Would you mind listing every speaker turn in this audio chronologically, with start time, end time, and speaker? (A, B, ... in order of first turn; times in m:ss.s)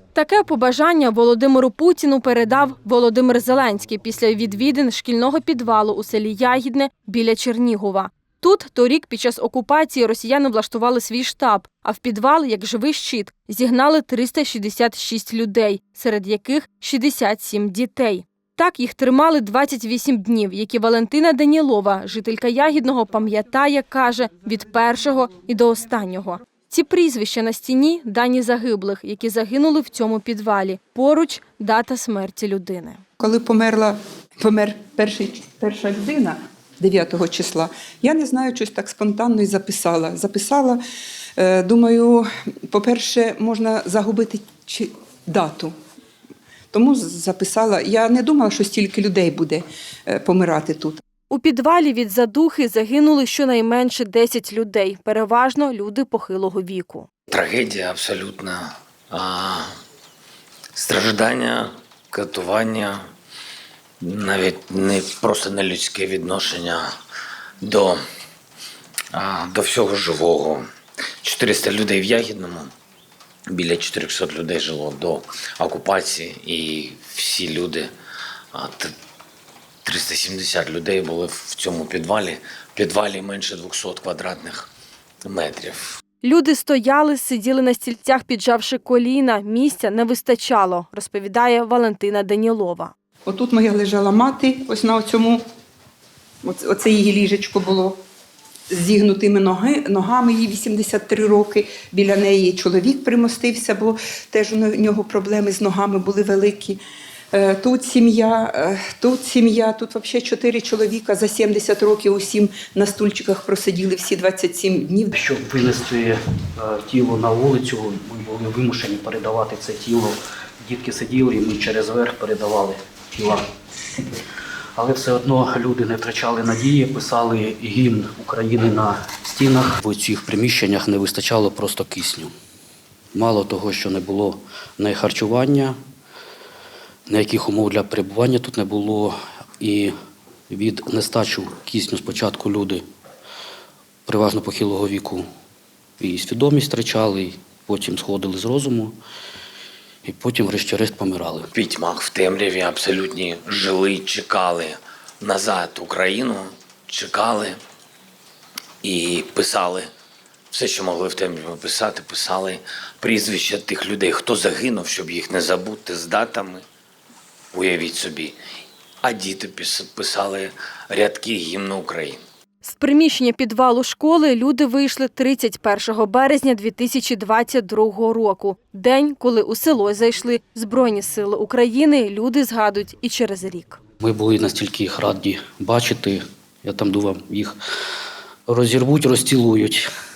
0:00.1-0:33.0 A
0:33.2-0:40.8 B
0:41.4-0:45.7 B
0:46.7-0:51.0 B
0:51.3-0:57.1 A
0:57.3-0:59.7 C
1:00.7-1:03.0 C
1:04.0-1:06.9 C
1:07.6-1:08.0 C
1:09.1-1:10.6 C
1:11.2-1:12.7 C
1:13.5-1:17.9 C
1:18.5-1:18.9 C
1:19.8-1:24.7 C
1:25.2-1:26.0 C
1:26.2-1:32.9 A
1:33.2-1:35.4 B
1:36.4-1:38.0 B
1:38.7-1:46.8 B
1:47.3-1:55.1 B
1:55.1-2:03.4 D
2:04.8-2:12.3 D
2:13.1-2:15.8 D
2:17.1-2:19.9 D
2:20.5-2:22.8 D
2:24.0-2:25.2 D
2:26.0-2:28.9 D
2:30.0-2:31.5 D
2:31.5-2:37.6 C
2:38.8-2:39.9 C
2:40.5-2:46.6 C
2:47.5-2:48.4 C
2:49.0-2:52.2 C
2:52.6-3:03.8 A
3:04.0-3:07.6 D
3:08.5-3:09.9 D